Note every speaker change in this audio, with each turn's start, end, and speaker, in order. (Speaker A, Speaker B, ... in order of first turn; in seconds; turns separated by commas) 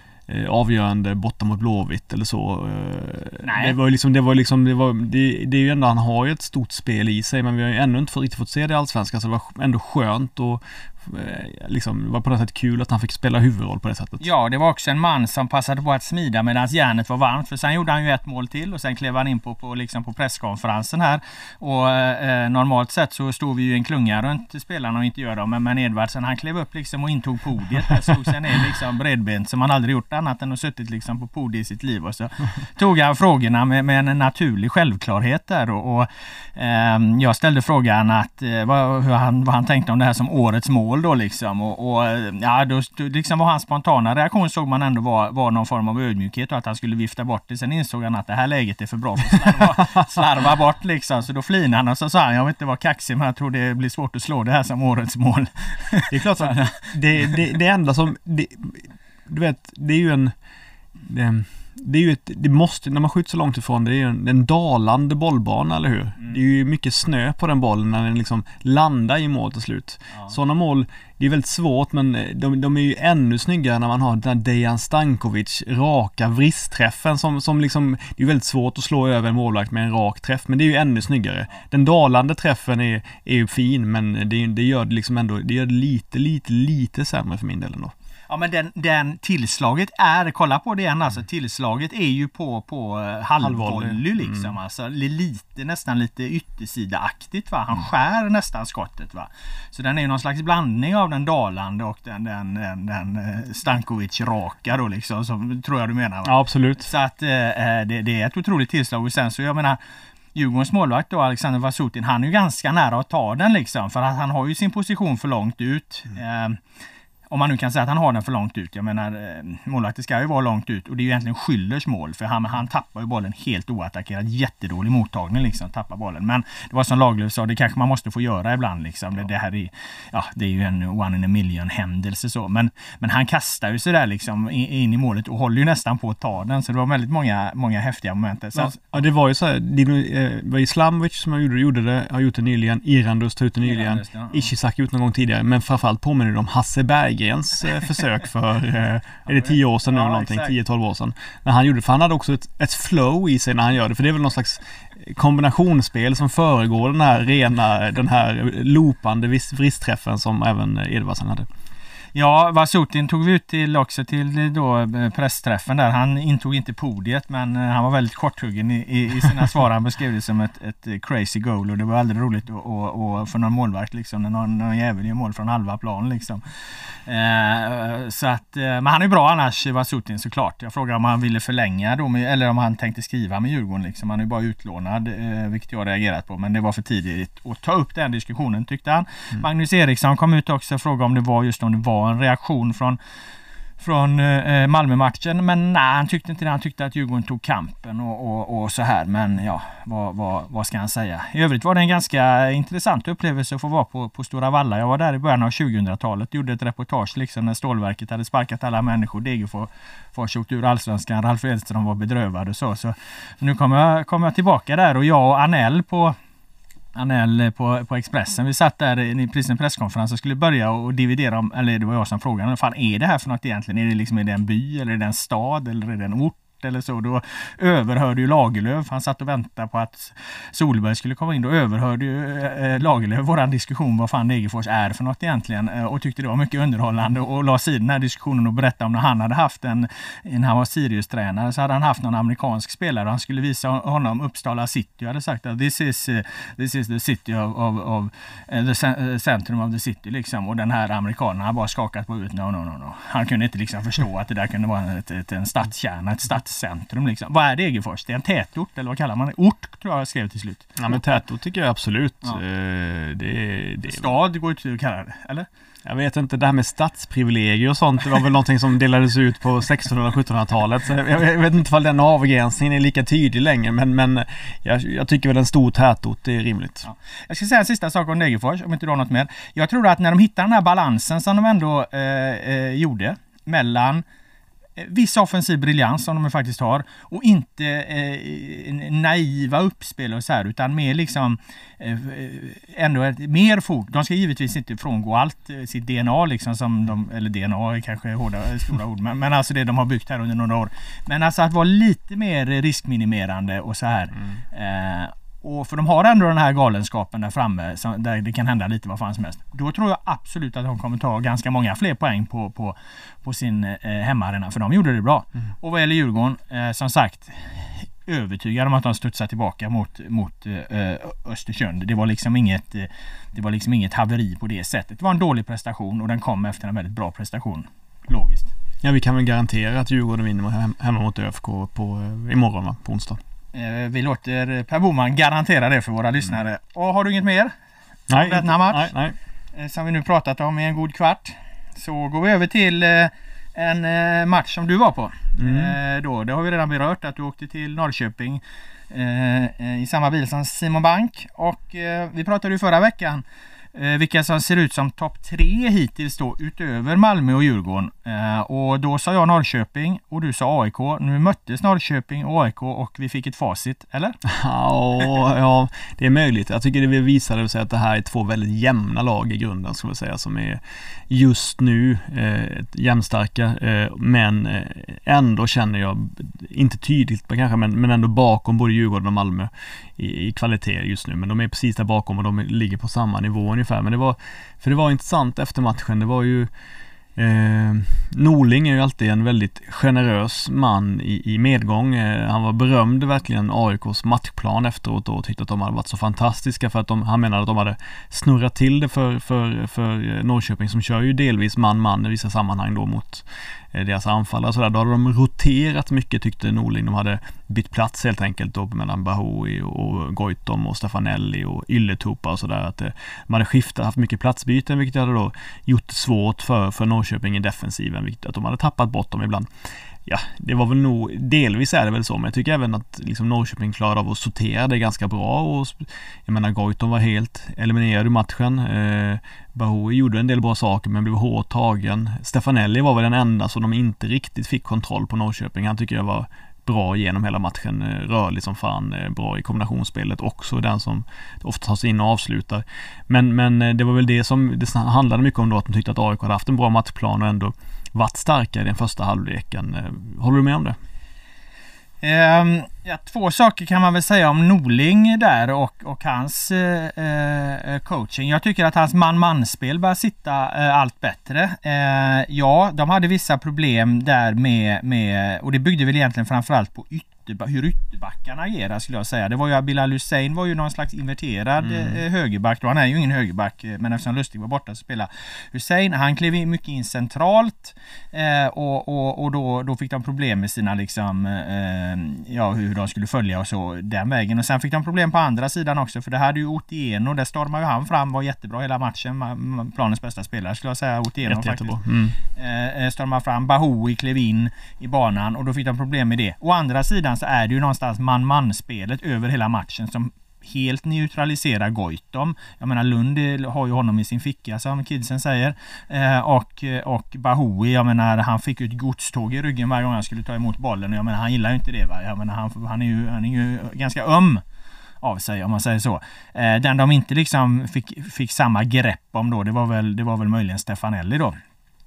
Speaker A: 0.3-14.2, Speaker B: 3.4-3.8, Speaker B: 14.2-56.9, Speaker A: 56.1-60.3, Speaker A: 61.0-87.9, Speaker B: 88.3-109.8, Speaker A: 93.4-94.5, Speaker A: 106.2-106.9, Speaker B: 110.3-116.6, Speaker B: 117.3-139.0, Speaker A: 138.5-161.5, Speaker B: 143.6-144.5, Speaker B: 149.3-150.5, Speaker B: 162.1-176.4, Speaker B: 177.1-193.0, Speaker B: 193.8-216.2, Speaker B: 216.9-261.0, Speaker A: 260.8-264.1, Speaker B: 263.8-265.5, Speaker A: 265.8-276.9, Speaker B: 276.8-284.0, Speaker B: 284.8-328.5, Speaker A: 328.8-333.2, Speaker B: 333.5-337.5, Speaker A: 338.1-339.1, Speaker B: 338.2-338.9, Speaker B: 339.5-364.2, Speaker A: 345.4-345.7, Speaker A: 364.2-386.5, Speaker A: 387.2-419.5, Speaker A: 420.1-450.8, Speaker B: 452.0-491.8, Speaker A: 471.6-472.0, Speaker A: 491.2-492.2, Speaker B: 492.3-514.4, Speaker B: 515.0-521.3